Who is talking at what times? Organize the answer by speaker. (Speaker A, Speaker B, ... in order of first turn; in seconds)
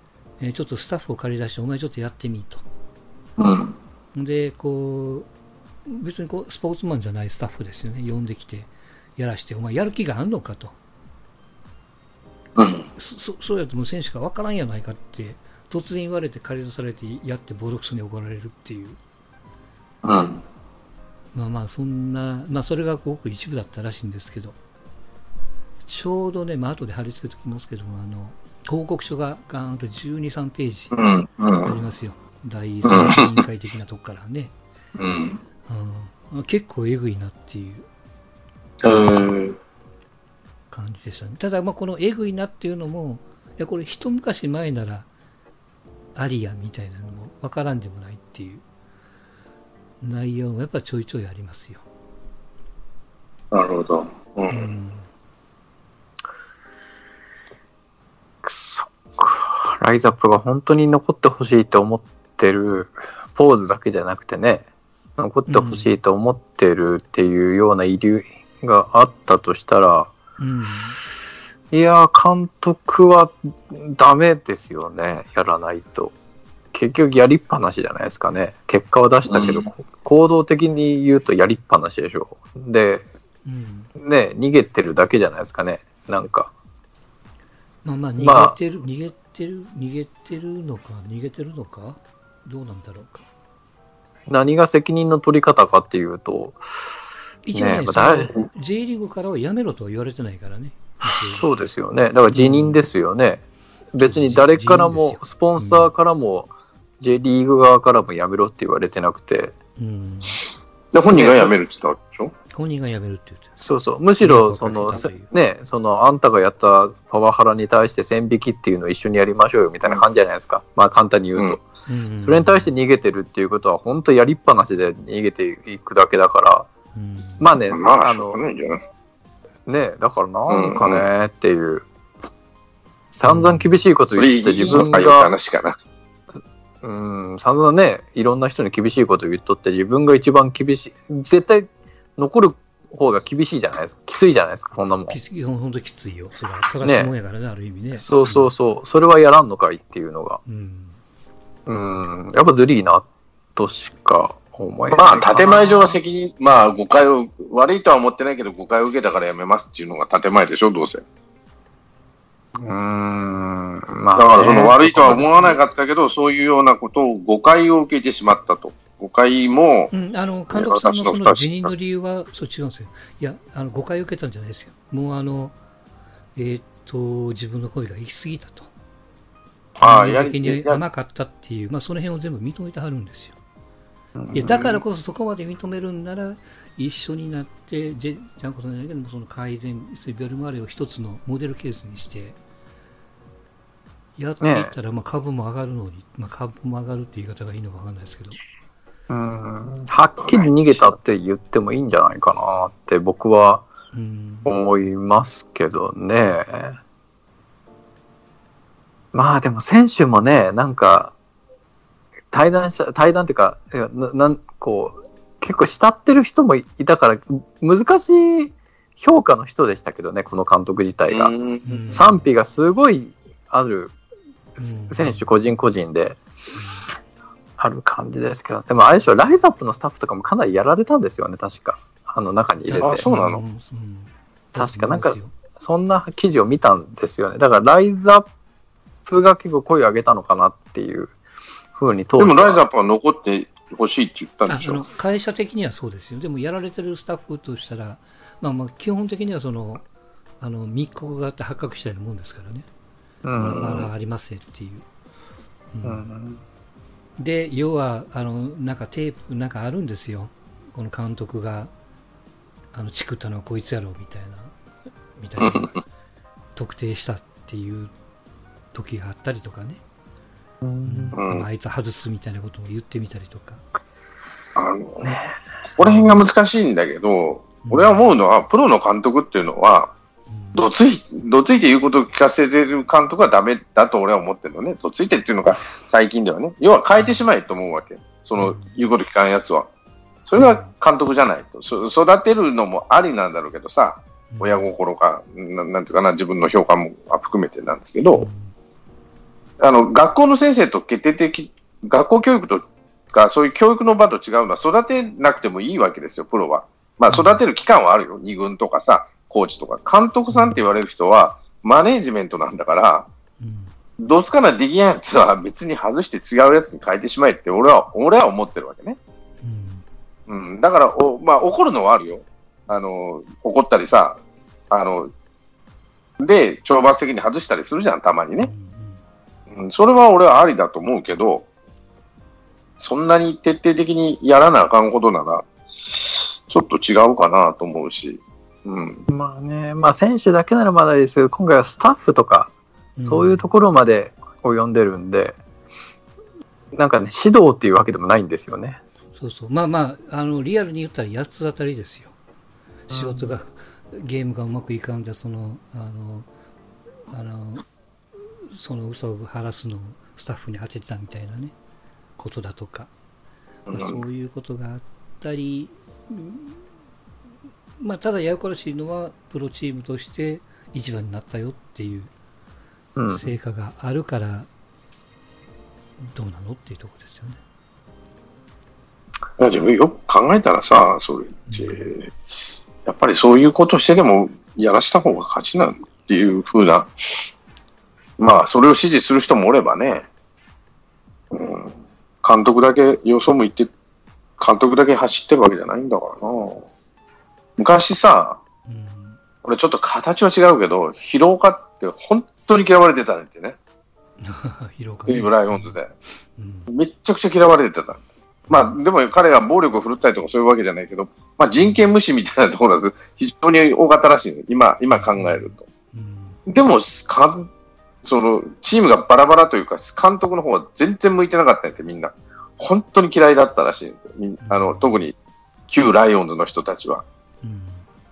Speaker A: 0.4-2.6, 4.1-5.3, 5.8-10.7, 13.0-19.0, 21.3-24.6, 25.9-30.9, 31.6-34.5, 35.7-37.9, 38.9-39.3, 40.7-45.1, 46.1-48.6, 50.0-51.8, 54.5-55.1, 65.5-65.9, 70.4-71.0, 83.4-83.9, 87.8-93.2, 97.4-101.4, 102.3-102.8, 104.0-105.9, 109.8-110.4, 112.5-113.6, 114.2-115.3, 121.9-122.7, 126.9-127.5, 133.2-133.8, 145.1-148.5, 150.4-151.0, 169.9-175.5, 176.3-178.7, 179.8-183.3, 184.3-192.4, 194.2-198.4, 203.9-204.5, 221.6-222.3, 224.6-225.3, 226.5-226.9, 232.7-235.3, 244.5-249.8, 250.4-252.7, 253.4-254.8, 255.7-256.1, 257.2-261.7, 262.7-264.6, 265.1-265.7, 266.5-267.9, 268.7-269.8, 270.8-273.6, 275.8-276.2, 277.6-278.1, 280.3-280.7, 286.9-287.2, 288.4-288.8, 290.4-290.7, 294.3-294.7, 298.1-298.5, 307.1-307.4, 310.3-310.6, 313.4-313.7, 319.4-319.8, 328.4-329.0, 343.0-343.5, 349.1-352.1, 352.9-356.3, 357.1-357.6, 358.4-361.5, 362.2-362.9, 363.7-366.6, 367.8-372.1, 373.1-374.5, 376.0-377.4, 381.5-381.9, 398.7-399.2, 404.2-405.8, 406.4-406.7, 408.5-408.8, 411.6-411.9, 414.9-416.4, 424.4-425.1, 427.4-427.9
Speaker B: 3.4-3.8, 12.6-12.9, 20.0-20.4, 30.9-31.7, 32.9-33.4, 35.0-35.4, 38.8-39.5, 53.5-54.7, 79.3-79.7, 110.9-112.3, 127.7-128.8, 130.5-131.1, 134.1-135.8, 154.9-161.0, 164.2-169.9, 170.5-171.7, 179.8-180.8, 200.2-200.9, 221.1-221.7, 232.8-233.4, 242.2-244.8, 253.4-253.9, 265.4-265.8, 271.1-271.4, 274.6-275.1, 275.8-279.9, 280.5-289.7, 290.3-298.2, 299.6-313.1, 314.0-319.0, 320.3-324.2, 324.7-325.1, 326.2-328.5, 329.5-331.4, 332.8-339.0, 363.7-364.0, 379.4-382.1, 382.9-386.9, 388.2-390.1, 391.3-393.7, 394.4-396.7, 397.6-398.4, 399.4-403.6, 405.1-405.9, 406.7-415.6, 416.5-417.5, 418.0-425.1, 425.7-427.0
Speaker C: 58.4-64.7, 65.2-70.1, 71.7-76.1, 76.7-83.1, 84.0-86.5, 88.2-88.5, 94.3-96.6, 97.5-98.3, 101.3-103.4, 103.9-109.5, 111.1-111.5, 113.6-121.6, 122.2-126.7, 127.4-128.4, 129.7-131.8, 133.1-135.3, 136.8-145.2, 146.8-147.1, 148.0-150.4, 151.7-155.9, 162.6-165.6, 184.2-184.8, 194.4-194.7, 199.1-203.7, 204.4-206.8, 209.1-211.1, 212.3-223.9, 224.9-226.2, 227.6-233.0, 234.6-238.3, 239.1-241.2, 241.7-242.6, 253.2-253.8, 255.8-256.4, 270.6-271.2, 275.0-275.4, 339.1-342.5, 343.1-345.4, 346.7-348.8, 352.9-353.4, 372.9-373.4